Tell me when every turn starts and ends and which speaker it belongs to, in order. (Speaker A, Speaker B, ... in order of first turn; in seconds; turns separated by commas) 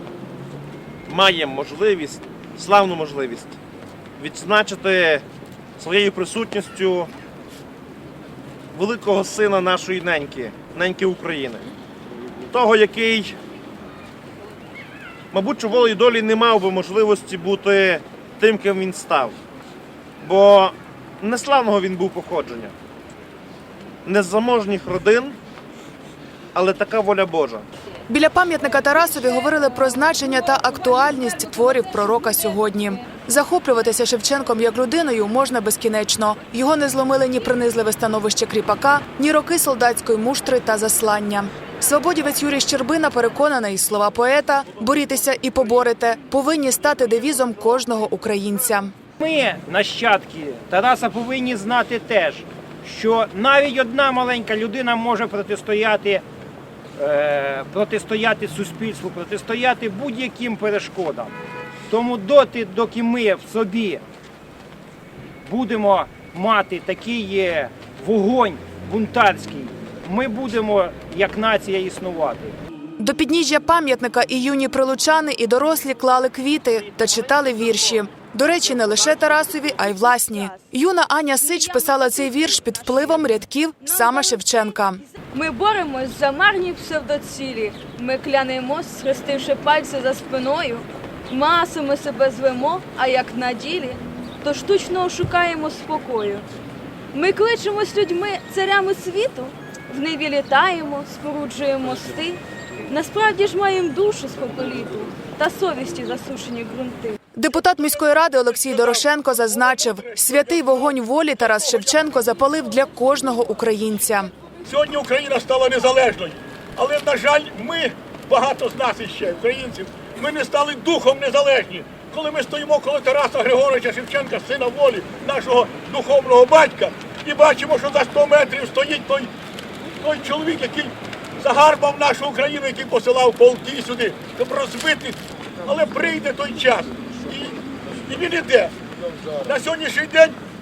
Speaker A: 1.1-3.5, Speaker A: 4.2-5.2, Speaker A: 5.8-7.1, Speaker A: 8.7-11.7, Speaker A: 12.5-13.3, Speaker A: 15.3-19.4, Speaker A: 20.2-22.7, Speaker A: 24.0-25.4, Speaker A: 26.5-27.6, Speaker B: 28.1-48.9, Speaker C: 49.2-56.2, Speaker C: 57.0-61.3, Speaker C: 61.9-64.0, Speaker C: 65.4-72.5, Speaker B: 73.0-85.0, Speaker D: 80.1-80.6, Speaker D: 81.5-84.4, Speaker D: 85.1-96.5, Speaker D: 97.1-107.2, Speaker B: 107.3-114.3, Speaker E: 109.9-110.7, Speaker E: 114.7-129.3, Speaker E: 130.0-138.8, Speaker E: 139.3-140.4